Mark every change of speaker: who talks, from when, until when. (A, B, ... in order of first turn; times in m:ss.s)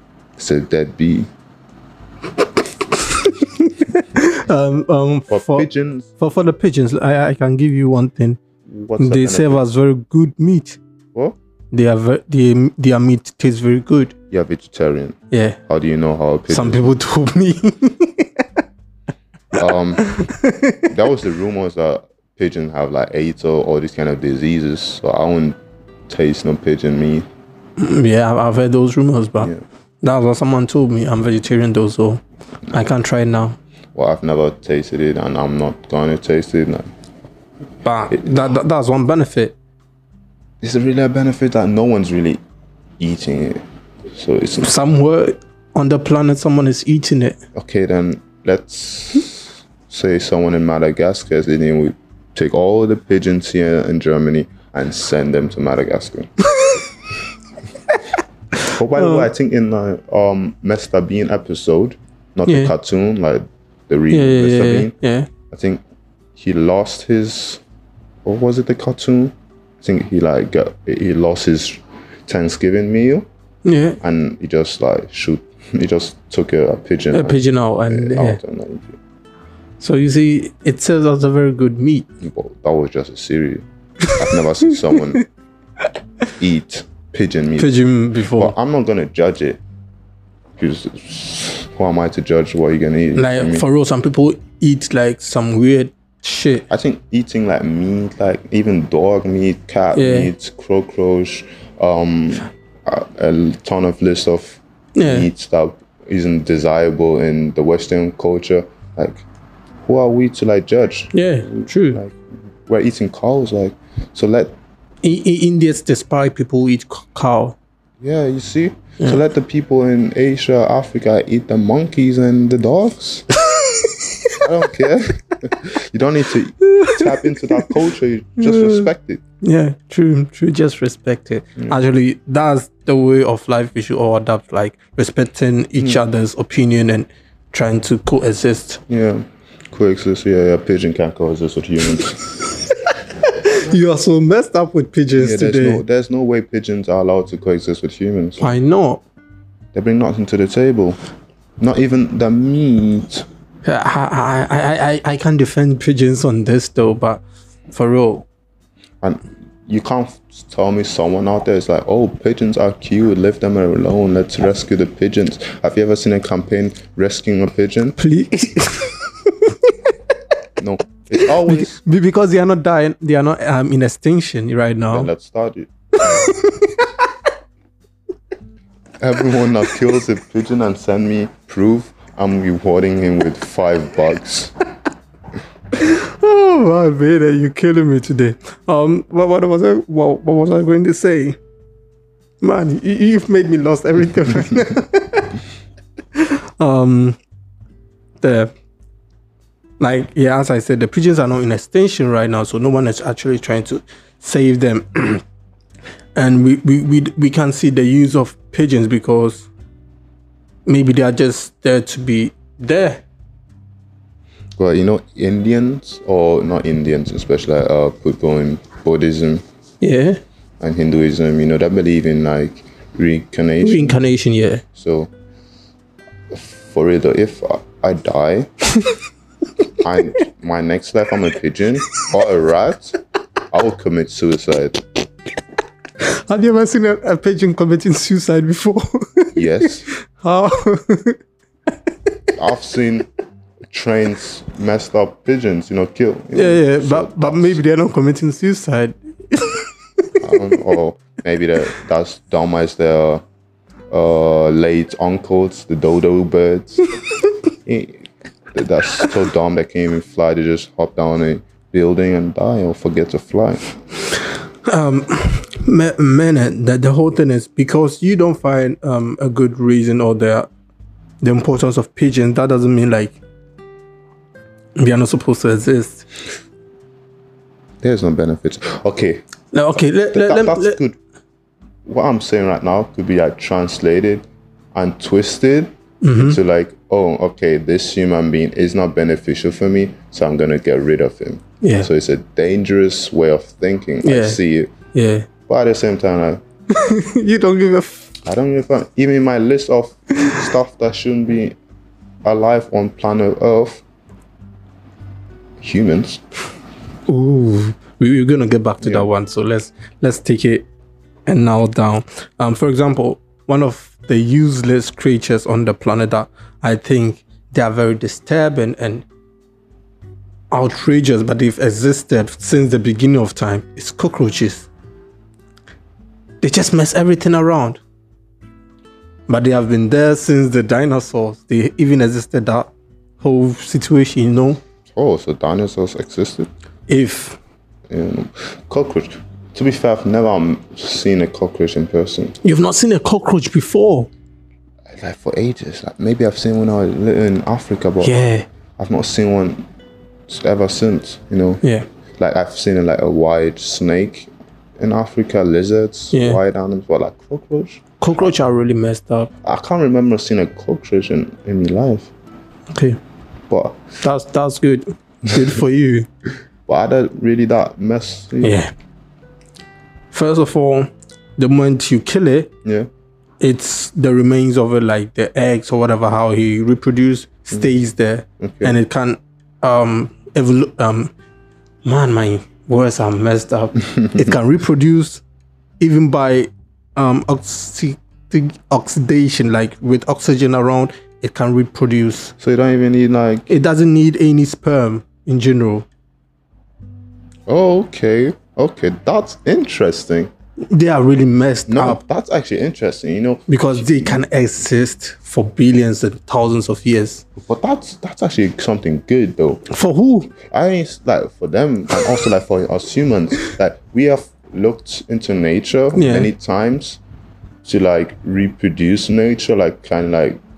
0:00.4-0:01.3 A
0:03.1-0:05.7 B
0:05.3-0:06.1 A
0:06.2-0:08.4 B
0:08.7-0:09.6 A
0:09.0-0:10.8 B
0:11.7-0:14.1 B
0:14.3-0:16.9 A
0:15.3-0:15.6 B
0:16.5-0:18.4 B
0:19.5-0:20.0 A
0:20.0-0:20.9 B
0:20.9-0:27.2 A
0:27.8-0:33.6 B
0:33.9-0:36.9 A
0:37.8-0:39.6 B
0:38.1-0:38.4 A
0:40.6-0:42.4 A
0:43.0-0:44.7 A
0:44.6-0:47.4 B
0:47.5-0:56.3 A
0:58.6-1:04.9 A
0:58.9-0:59.3 B
1:02.5-1:02.7 B
1:04.1-1:05.3 B
1:05.5-1:05.8 A
1:06.4-1:07.6 A
1:08.2-1:13.3 A
1:13.6-1:14.0 B
1:14.0-1:19.0 A
1:17.1-1:18.4 B
1:19.8-1:22.1 B
1:22.2-1:25.2 A
1:24.0-1:25.2 B
1:26.4-1:27.7 A
1:27.6-1:28.5 B
1:28.3-1:29.6 A
1:30.6-1:33.7 A
1:33.2-1:36.6 B
1:36.7-1:49.2 A
1:39.9-1:40.3 B
1:45.0-1:45.3 B
1:49.8-1:54.5 A
1:51.1-1:52.0 B
1:55.0-1:57.6 B
1:58.0-2:03.3 A
2:03.5-2:04.4 B
2:04.4-2:09.2 A
2:06.6-2:07.8 B
2:08.4-2:08.9 B
2:09.4-2:18.8 B
2:18.9-2:22.3 A
2:22.9-2:25.8 B
2:25.2-2:28.5 A
2:28.4-2:29.0 B
2:29.7-2:31.0 A
2:31.6-2:33.2 A
2:33.6-2:38.2 B
2:39.0-2:48.0 A
2:48.0-2:49.7 B
2:50.6-2:51.8 A
2:51.2-2:55.1 B
2:54.9-2:56.3 A
2:56.0-2:57.1 B
2:59.0-3:04.5 A
3:05.8-3:11.4 B
3:12.4-3:15.3 B
3:16.2-3:17.2 B
3:18.2-3:18.5 B
3:19.8-3:25.2 B
3:26.1-3:29.5 B
3:30.6-3:33.0 B
3:34.6-3:39.4 A
3:39.8-3:40.2 B
3:40.6-3:44.0 A
3:43.6-3:44.6 B
3:44.7-3:45.1 A
3:46.3-3:48.5 A
3:49.8-3:53.0 A
3:53.5-3:55.0 A
3:56.0-4:01.2 B
3:59.3-3:59.9 A
4:02.3-4:03.1 A
4:03.7-4:07.6 A
4:06.3-4:10.1 B
4:10.2-4:13.2 A
4:13.9-4:16.8 A
4:17.6-4:23.6 A
4:24.6-4:30.5 B
4:31.2-4:33.2 B
4:34.8-4:36.0 B
4:37.8-4:39.2 A
4:39.5-4:40.8 B
4:40.1-4:41.0 A
4:41.8-4:54.7 A
4:46.0-4:46.4 B
4:51.6-4:51.9 B
4:54.0-4:54.4 B
4:54.9-4:55.3 B
4:55.5-4:56.4 A
4:56.7-4:58.1 B
4:58.2-5:01.6 A
5:02.2-5:03.8 A
5:05.6-5:06.2 A
5:07.1-5:10.6 B
5:08.8-5:09.1 A
5:11.3-5:19.0 B
5:20.5-5:24.7 B
5:26.4-5:27.8 B
5:29.3-5:34.6 B
5:34.9-5:36.5 A
5:36.9-5:37.4 B
5:37.9-5:42.4 A
5:42.4-5:44.1 B
5:44.9-5:48.2 A
5:48.0-5:48.5 B
5:48.8-5:49.6 A
5:50.3-5:51.6 A
5:52.2-5:58.3 A
5:56.1-5:56.4 B
5:58.0-5:59.3 B
5:59.4-6:02.1 A
6:02.7-6:03.0 B
6:03.5-6:03.8 A
6:04.0-6:06.1 B
6:06.7-6:08.6 A
6:08.4-6:08.7 B
6:10.1-6:12.5 B
6:13.4-6:21.1 B
6:18.4-6:18.7 A
6:21.8-6:25.2 B
6:25.8-6:32.3 B
6:32.4-6:33.5 A
6:33.5-6:35.8 B
6:37.5-6:40.3 A
6:40.7-6:42.0 B
6:41.7-6:44.2 A
6:43.5-6:47.2 B
6:47.4-6:49.6 A
6:49.7-6:50.3 B
6:50.4-6:57.0 A
6:55.9-6:56.3 B
6:57.6-7:00.4 A